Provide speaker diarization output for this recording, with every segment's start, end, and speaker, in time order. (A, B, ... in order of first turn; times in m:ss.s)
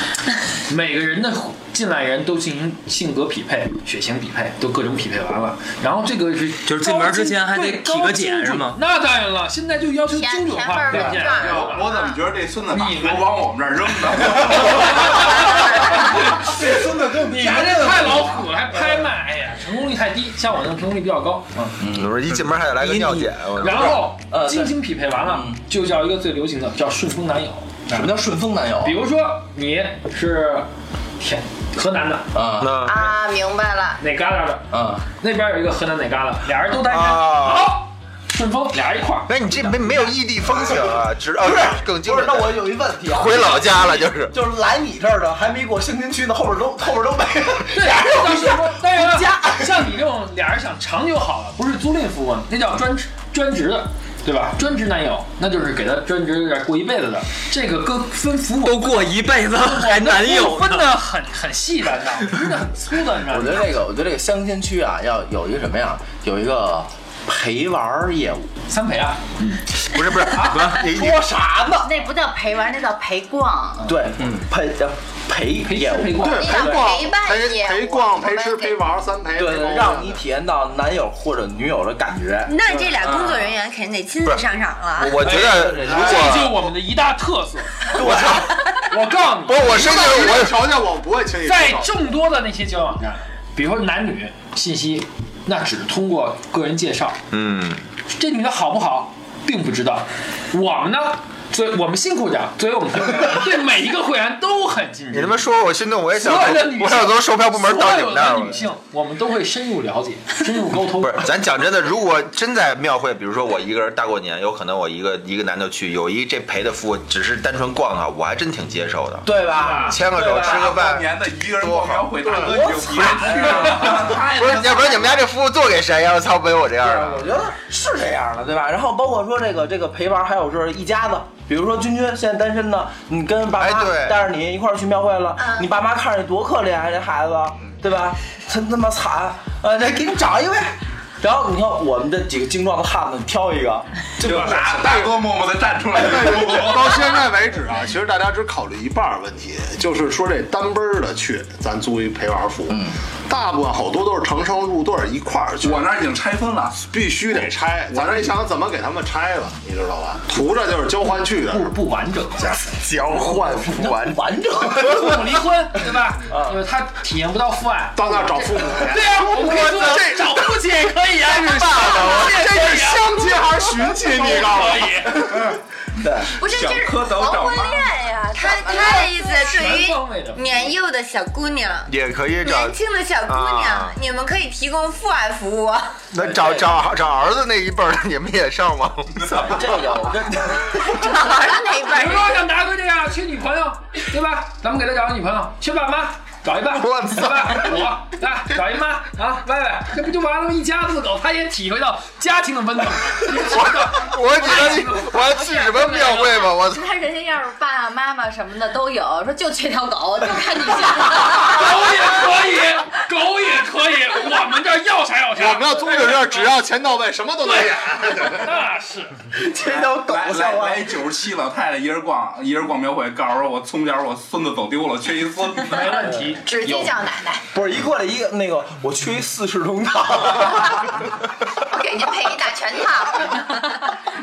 0:00.7-0:11.9 A
0:06.6-0:08.8 B
0:10.1-0:12.2 C
0:11.0-0:18.5 D
0:12.7-0:13.4 A
0:14.5-0:21.7 A
0:21.8-0:22.3 E
0:21.8-0:24.1 F
0:22.8-0:28.1 A
0:23.1-0:25.6 E
0:27.9-0:29.0 E
0:28.8-0:32.3 A
0:32.3-0:32.7 E
0:32.6-0:33.0 F
0:32.8-0:34.0 C
0:34.0-0:39.8 A
0:34.7-0:35.0 E
0:36.8-0:37.7 F
0:39.3-0:44.4 F
0:40.6-0:49.9 E
0:47.7-0:59.1 A
0:58.6-1:00.9 B
0:59.6-1:03.7 A
1:03.3-1:08.5 E
1:08.7-1:09.6 A
1:09.8-1:11.3 F
1:10.5-1:10.8 B
1:10.7-1:11.9 E
1:11.8-1:13.9 G
1:13.8-1:16.4 E
1:15.6-1:16.8 A
1:16.2-1:20.2 H
1:16.3-1:18.8 C
1:19.4-1:23.2 E
1:22.4-1:25.2 I
1:25.0-1:26.6 F
1:25.2-1:30.1 A
1:25.2-1:26.4 E
1:27.9-1:28.6 E
1:29.4-1:30.7 F
1:29.7-1:31.9 H
1:31.4-1:37.2 A
1:37.3-1:37.8 F
1:38.1-1:45.5 A
1:45.1-1:48.7 F
1:46.1-1:51.3 A
1:51.0-2:07.3 F
1:59.2-2:00.8 E
1:59.5-2:00.0 A
2:00.2-2:05.2 D
2:02.2-2:04.2 E
2:06.8-2:25.1 E
2:13.6-2:14.2 F
2:15.4-2:15.7 C
2:24.2-2:27.0 D
2:25.9-2:35.9 H
2:32.7-2:33.0 E
2:35.6-2:36.8 D
2:36.9-2:41.7 H
2:41.5-2:42.6 A
2:42.4-2:44.2 F
2:43.1-2:45.3 E
2:44.8-2:55.4 A
2:46.3-2:46.6 E
2:48.0-2:50.6 H
2:51.3-2:52.4 F
2:52.0-2:55.5 H
2:56.0-2:56.3 E
2:56.4-2:59.7 C
2:56.4-2:57.9 D
2:58.3-3:01.9 I
2:59.1-3:00.5 A
3:01.9-3:04.0 F
3:02.4-3:06.0 I
3:06.1-3:09.7 F
3:06.2-3:06.8 E
3:09.3-3:11.1 E
3:10.8-3:12.4 I
3:11.8-3:25.3 A
3:16.8-3:17.8 F
3:23.3-3:26.9 F
3:25.2-3:31.7 G
3:31.3-3:36.5 A
3:35.4-3:38.6 H
3:38.0-3:39.2 A
3:39.3-3:41.0 E
3:39.6-3:46.0 D
3:45.6-3:46.9 A
3:46.0-3:46.4 E
3:46.4-3:47.4 C
3:47.5-3:51.0 E
3:51.6-3:53.5 C